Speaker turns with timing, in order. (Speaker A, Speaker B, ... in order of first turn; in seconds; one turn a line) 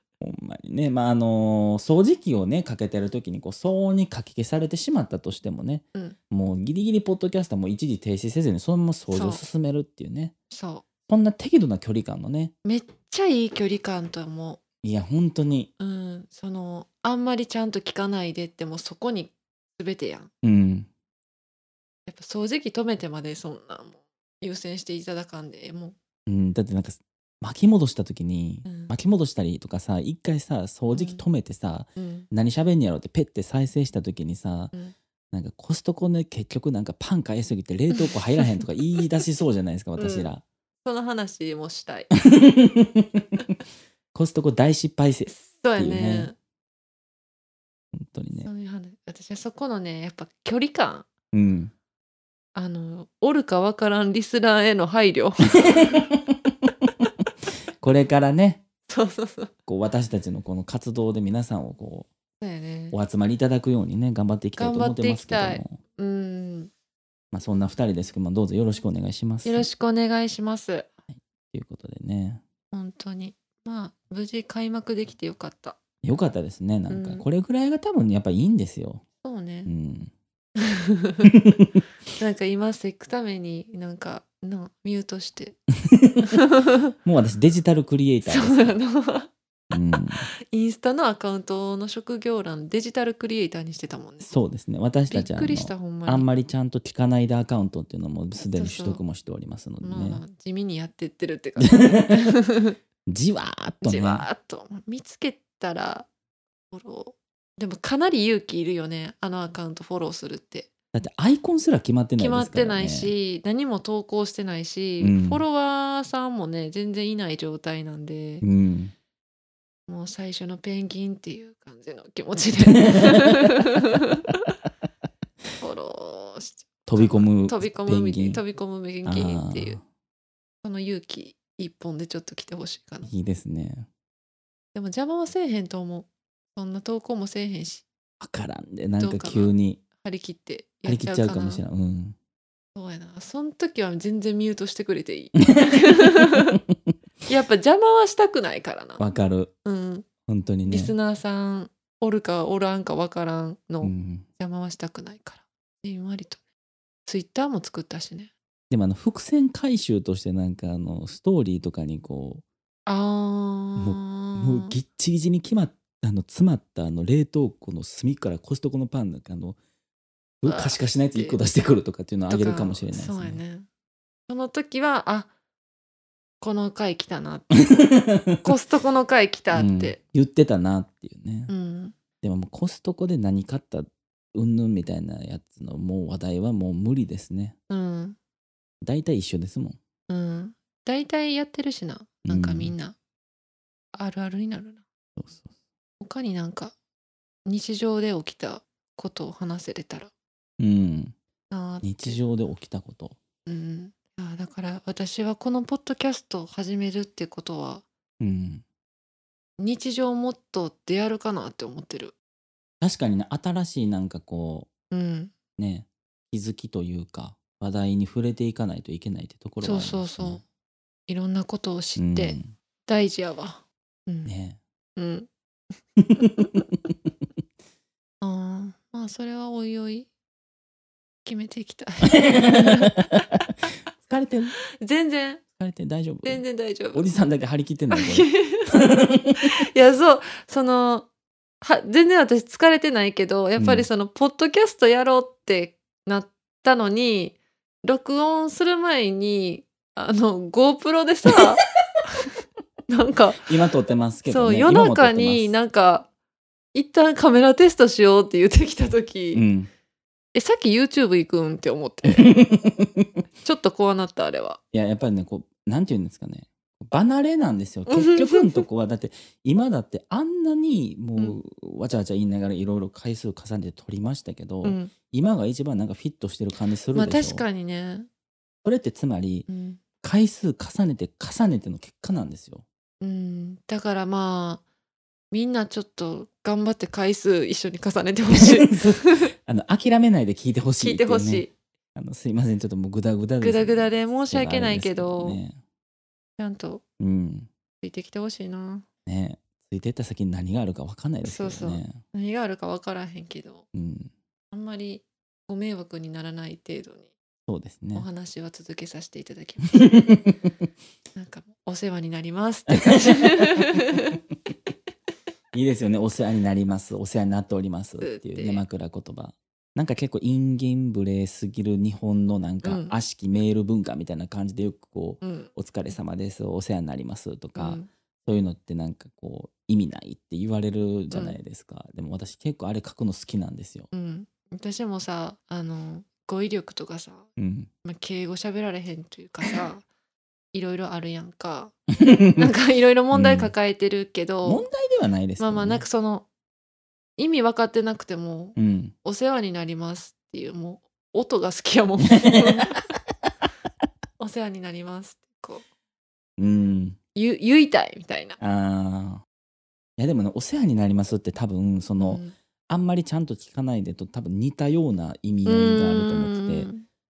Speaker A: 0.2-10.3
Speaker B: 9.1-9.4
Speaker B: 10.5-10.8
Speaker A: 11.1-12.5
Speaker B: 12.7-14.6
Speaker A: 14.8-15.7
Speaker B: 15.8-20.3
Speaker A: 20.4-20.9
Speaker B: 22.1-26.0
Speaker A: 26.3-34.7
Speaker B: 28.7-28.9
Speaker B: 30.9-31.2
Speaker B: 32.0-32.3
Speaker A: 35.3-40.4
Speaker B: 37.9-38.6
Speaker B: 40.0-40.3
Speaker B: 40.9-42.1
Speaker A: 42.2-43.2
Speaker A: 44.1-46.3
Speaker B: 45.3-46.4
Speaker A: 47.9-48.5
Speaker B: 48.3-51.1
Speaker A: 51.3-51.7
Speaker B: 52.5-55.6
Speaker A: 55.6-56.4
Speaker A: 57.8-58.6
Speaker B: 58.9-59.5
Speaker A: 59.7-62.1
Speaker B: 62.4-63.0
Speaker A: 62.9-65.8
Speaker B: 64.6-66.7
Speaker A: 67.3-69.7
Speaker B: 69.4-70.9
Speaker A: 71.1-72.4
Speaker B: 72.7-75.8
Speaker A: 76.0-79.0
Speaker B: 76.9-77.2
Speaker B: 79.2-79.7
Speaker A: 79.7-80.1
Speaker B: 80.9-81.3
Speaker A: 81.3-81.7
Speaker B: 82.2-85.6
Speaker A: 85.9-86.2
Speaker B: 86.2-86.7
Speaker A: 87.0-88.8
Speaker B: 88.2-89.3
Speaker A: 89.7-90.2
Speaker B: 90.5-94.3
Speaker A: 94.3-100.2
Speaker B: 95.1-96.3
Speaker B: 98.5-99.0
Speaker B: 99.8-102.8
Speaker A: 101.6-102.3
Speaker A: 103.1-104.3
Speaker B: 103.8-106.1
Speaker B: 106.7-110.7
Speaker A: 110.9-113.1
Speaker B: 112.2-118.5
Speaker A: 115.0-115.4
Speaker A: 118.4-118.9
Speaker B: 119.9-124.3
Speaker A: 122.9-123.6
Speaker B: 125.6-129.8
Speaker A: 126.9-128.4
Speaker A: 129.1-129.8
Speaker B: 130.6-133.1
Speaker A: 133.0-133.9
Speaker B: 134.7-137.9
Speaker A: 138.2-139.8
Speaker B: 139.0-141.6
Speaker A: 140.8-142.2
Speaker B: 142.8-146.6
Speaker A: 145.6-146.2
Speaker B: 147.3-149.0
Speaker A: 149.0-149.5
Speaker B: 149.7-150.1
Speaker A: 150.3-150.9
Speaker B: 150.7-156.4
Speaker A: 153.8-154.3
Speaker B: 157.1-158.3
Speaker A: 158.7-162.4
Speaker B: 162.9-164.7
Speaker A: 163.8-169.6
Speaker A: 170.4-173.4
Speaker B: 170.5-171.4
Speaker B: 172.3-173.7
Speaker B: 174.3-175.3
Speaker B: 176.4-177.7
Speaker A: 177.7-178.5
Speaker B: 178.4-180.0
Speaker A: 179.5-181.5
Speaker B: 181.5-181.9
Speaker A: 182.2-187.6
Speaker B: 187.7-188.2
Speaker A: 188.8-189.8
Speaker B: 190.1-193.0
Speaker A: 192.2-192.7
Speaker B: 193.9-194.8
Speaker A: 195.2-195.5
Speaker B: 196.0-196.8
Speaker B: 197.5-200.1
Speaker A: 200.6-201.2
Speaker B: 201.5-202.2
Speaker A: 201.8-203.2
Speaker B: 203.5-207.8
Speaker A: 208.2-208.6
Speaker B: 209.6-212.2
Speaker A: 212.8-214.7
Speaker B: 214.9-215.3
Speaker A: 215.6-220.4
Speaker B: 219.6-220.4
Speaker B: 221.1-224.3
Speaker A: 222.0-222.5
Speaker A: 224.2-224.6
Speaker B: 225.0-225.3
Speaker B: 226.2-226.6
Speaker B: 228.2-230.1
Speaker B: 231.2-232.9
Speaker A: 232.2-233.0
Speaker A: 234.0-234.6
Speaker B: 234.8-235.4
Speaker A: 235.6-239.4
Speaker B: 236.2-237.1
Speaker B: 237.9-238.7
Speaker B: 239.4-241.1
Speaker B: 241.6-252.2
Speaker A: 243.6-243.9
Speaker B: 252.9-253.5
Speaker A: 253.5-255.5
Speaker B: 254.3-256.1
Speaker B: 256.7-259.4
Speaker A: 259.3-259.7
Speaker B: 260.3-262.3
Speaker A: 262.1-263.1
Speaker B: 263.4-264.6
Speaker A: 264.7-277.4
Speaker B: 267.9-268.6
Speaker B: 274.6-274.9
Speaker B: 276.9-278.1
Speaker A: 278.6-279.5
Speaker B: 279.5-279.8
Speaker A: 280.0-282.6
Speaker B: 283.0-284.6
Speaker B: 285.3-289.3
Speaker A: 288.3-295.6
Speaker B: 290.8-291.5
Speaker B: 293.4-295.4
Speaker B: 296.4-296.8
Speaker A: 297.0-297.5
Speaker B: 297.8-298.9
Speaker A: 299.1-302.0
Speaker B: 301.2-303.6
Speaker A: 303.7-304.1
Speaker B: 304.5-307.1
Speaker A: 307.5-308.1
Speaker B: 307.9-309.9
Speaker A: 309.8-310.4
Speaker B: 311.1-314.2
Speaker A: 315.5-333.9
Speaker B: 318.0-318.6
Speaker B: 322.6-322.9
Speaker B: 325.2-325.5
Speaker B: 327.6-327.9
Speaker B: 331.1-331.4
Speaker B: 333.9-337.3
Speaker A: 337.4-337.7
Speaker B: 337.8-339.9
Speaker B: 340.5-341.8
Speaker A: 342.0-342.5
Speaker B: 342.4-344.7
Speaker A: 343.1-343.5
Speaker A: 344.4-345.8
Speaker B: 345.4-346.3
Speaker B: 347.2-352.9
Speaker A: 348.6-348.9
Speaker B: 354.2-355.6
Speaker A: 356.4-357.0
Speaker B: 357.1-358.4
Speaker A: 358.4-359.2
Speaker A: 360.0-366.7
Speaker B: 362.0-362.3
Speaker B: 365.4-366.9